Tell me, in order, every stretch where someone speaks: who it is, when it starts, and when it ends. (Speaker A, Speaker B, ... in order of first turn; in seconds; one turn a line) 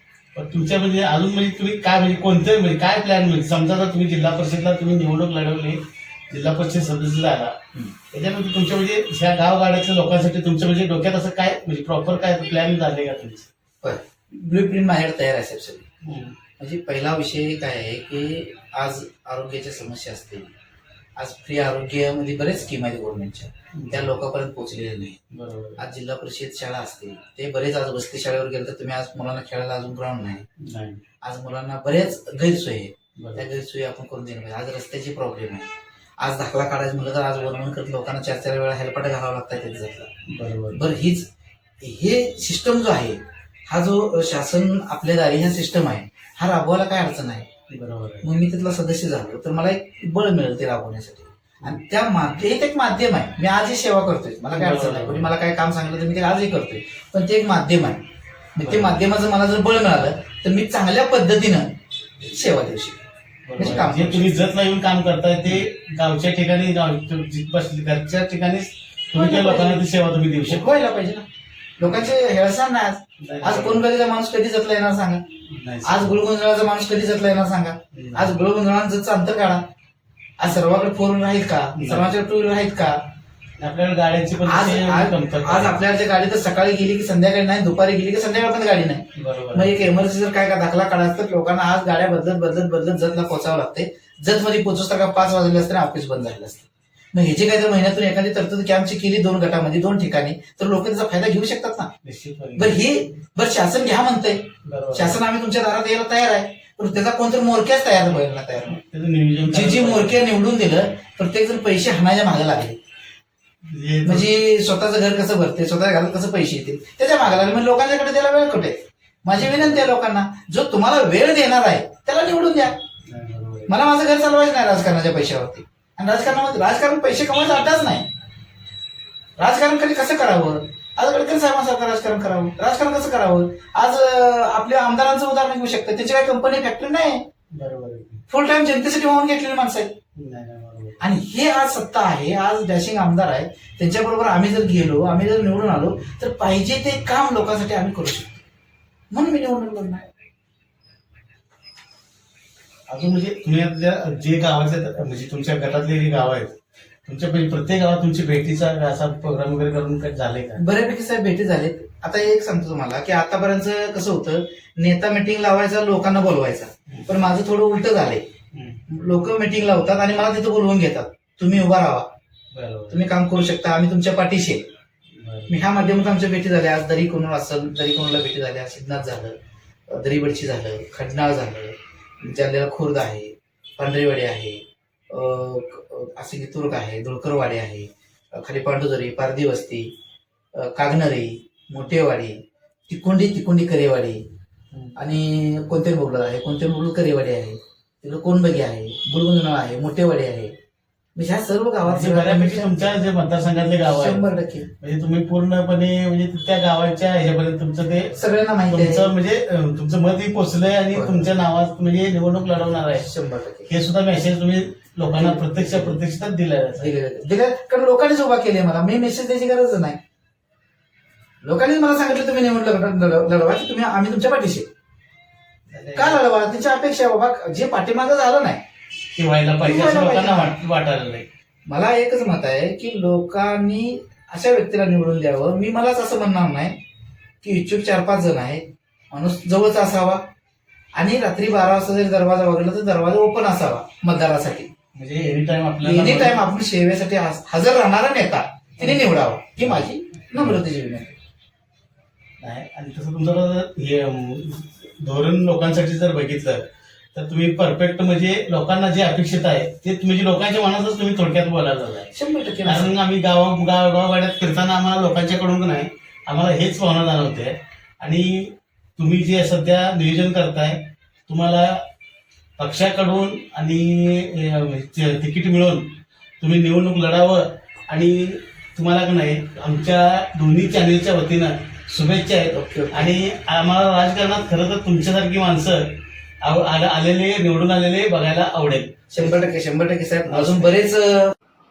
Speaker A: 0.3-7.6
Speaker A: 8.1-13.5
Speaker B: 13.8-15.8
Speaker A: 16.0-16.4
Speaker B: 16.6-20.5
Speaker B: 21.2-25.2
Speaker A: 23.8-24.2
Speaker A: 25.3-25.8
Speaker B: 25.8-30.4
Speaker A: 30.6-31.0
Speaker B: 31.2-35.7
Speaker A: 33.2-33.5
Speaker B: 36.2-40.1
Speaker A: 40.3-40.9
Speaker B: 40.7-41.3
Speaker B: 41.8-47.5
Speaker A: 47.7-48.3
Speaker B: 48.2-58.0
Speaker A: 54.5-55.3
Speaker B: 58.5-63.0
Speaker A: 58.6-58.9
Speaker A: 63.5-70.7
Speaker B: 63.6-64.3
Speaker B: 69.1-69.9
Speaker B: 70.5-71.2
Speaker B: 71.8-75.2
Speaker A: 71.8-72.1
Speaker A: 73.2-73.9
Speaker A: 75.5-76.2
Speaker B: 75.8-79.6
Speaker A: 77.9-78.4
Speaker B: 80.4-83.0
Speaker A: 81.7-82.1
Speaker A: 83.6-85.8
Speaker B: 84.4-101.9
Speaker A: 89.2-89.9
Speaker A: 102.0-102.8
Speaker B: 102.5-108.8
Speaker A: 104.6-105.2
Speaker A: 108.1-110.2
Speaker B: 109.4-112.8
Speaker A: 113.7-114.3
Speaker B: 114.0-122.8
Speaker A: 119.3-119.9
Speaker A: 123.1-123.8
Speaker B: 123.7-128.1
Speaker B: 129.4-137.2
Speaker A: 137.5-138.2
Speaker B: 138.3-139.9
Speaker A: 140.2-141.0
Speaker B: 141.0-148.4
Speaker B: 149.1-150.1
Speaker A: 152.9-156.5
Speaker A: 157.1-160.6
Speaker B: 160.6-168.2
Speaker A: 166.9-167.2
Speaker A: 168.5-168.8
Speaker B: 168.9-172.1
Speaker A: 172.5-173.1
Speaker B: 172.9-174.7
Speaker A: 175.2-175.6
Speaker B: 175.5-179.3
Speaker B: 179.9-189.9
Speaker B: 190.6-192.3
Speaker B: 192.9-194.2
Speaker B: 194.9-200.5
Speaker B: 201.2-202.9
Speaker A: 201.8-204.2
Speaker B: 203.8-204.7
Speaker A: 204.8-213.1
Speaker B: 208.1-209.1
Speaker B: 210.9-211.3
Speaker B: 212.9-213.7
Speaker A: 213.7-216.9
Speaker B: 215.0-216.0
Speaker B: 216.8-220.0
Speaker B: 221.4-224.7
Speaker A: 225.7-226.2
Speaker B: 225.9-228.6
Speaker A: 229.1-231.3
Speaker B: 229.6-230.6
Speaker B: 231.7-236.8
Speaker B: 237.4-240.2
Speaker B: 240.9-244.7
Speaker A: 244.9-246.4
Speaker B: 245.8-251.2
Speaker A: 248.8-250.6
Speaker A: 252.4-262.1
Speaker B: 262.1-263.0
Speaker A: 262.6-271.8
Speaker A: 272.6-289.4
Speaker B: 282.5-283.2
Speaker B: 289.1-291.3
Speaker A: 290.3-290.8